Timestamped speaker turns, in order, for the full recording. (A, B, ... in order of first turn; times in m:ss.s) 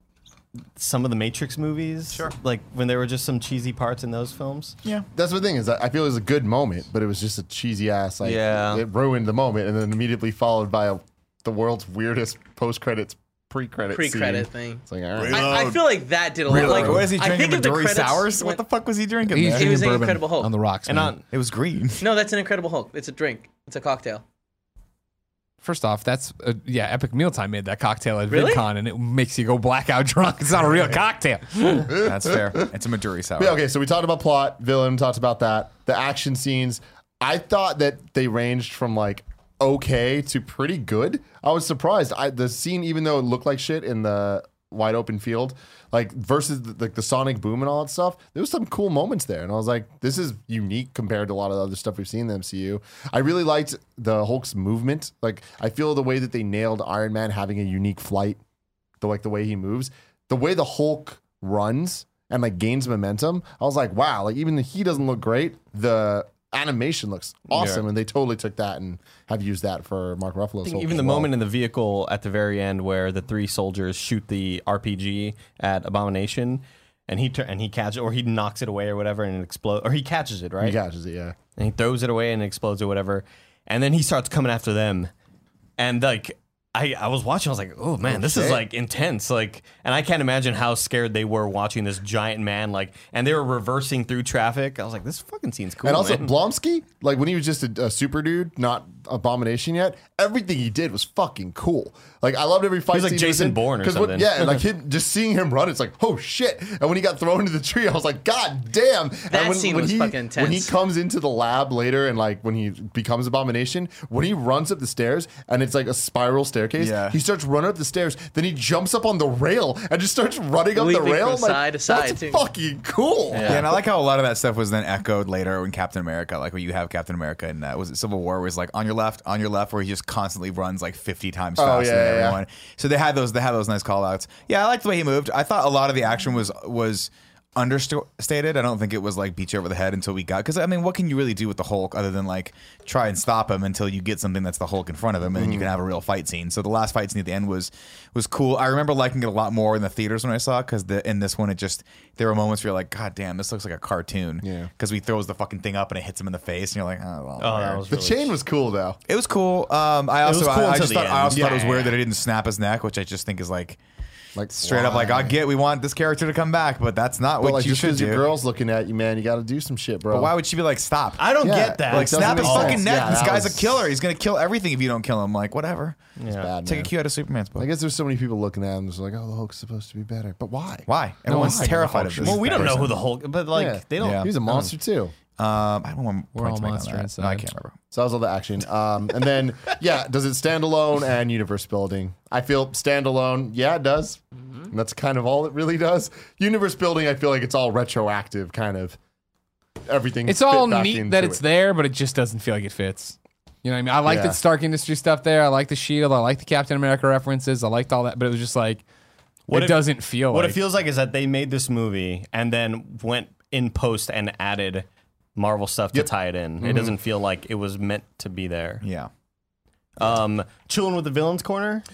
0:00.8-0:04.8 A
0:05.1-0:15.5 B
0:08.2-0:08.8 A
0:13.9-0:18.6 C
0:15.2-0:15.9 D
0:16.4-0:20.0 D
0:16.5-0:17.1 B
0:19.3-0:21.2 E
0:19.5-0:20.5 C
0:20.9-0:21.2 A
0:21.3-0:22.1 D
0:22.0-0:24.2 C
0:25.6-0:31.9 E
0:28.3-0:28.6 C
0:31.9-0:33.6 D
0:31.9-0:32.7 B
0:33.4-0:58.4 B
0:59.0-1:11.3 B
1:07.5-1:07.8 A
1:10.6-1:20.8 A
1:20.6-1:21.4 B
1:21.6-1:25.1 A
1:25.8-1:36.4 A
1:28.1-1:28.7 B
1:35.8-2:03.8 B
1:42.9-1:44.6 A
1:49.3-1:50.7 C
1:56.8-1:57.2 D
2:00.7-2:02.4 C
2:03.3-2:03.7 A
2:03.4-2:37.8 D
2:11.6-2:12.4 B
2:25.3-2:25.7 B
2:34.4-2:34.7 B
2:37.4-2:38.3 A
2:37.9-2:39.0 B
2:39.1-2:43.8 D
2:40.2-2:42.0 A
2:41.3-2:41.7 B
2:44.4-2:45.4 B
2:44.5-2:48.2 D
2:47.4-2:50.3 B
2:50.1-2:56.0 D
2:51.2-2:52.9 A
2:51.4-2:53.8 B
2:56.2-2:56.5 A
2:56.3-2:56.9 B
2:56.6-2:57.7 D
2:57.6-3:03.0 B
3:00.9-3:03.0 D
3:01.3-3:02.1 E
3:02.2-3:04.7 A
3:03.5-3:05.1 B
3:04.0-3:04.3 D
3:05.4-3:07.8 D
3:06.3-3:07.5 E
3:07.9-3:19.0 B
3:19.9-3:21.4 B
3:20.3-3:28.8 E
3:24.0-3:24.4 B
3:29.5-3:30.6 E
3:29.5-3:38.8 A
3:35.9-3:36.9 B
3:38.8-3:39.1 D
3:40.0-3:41.8 A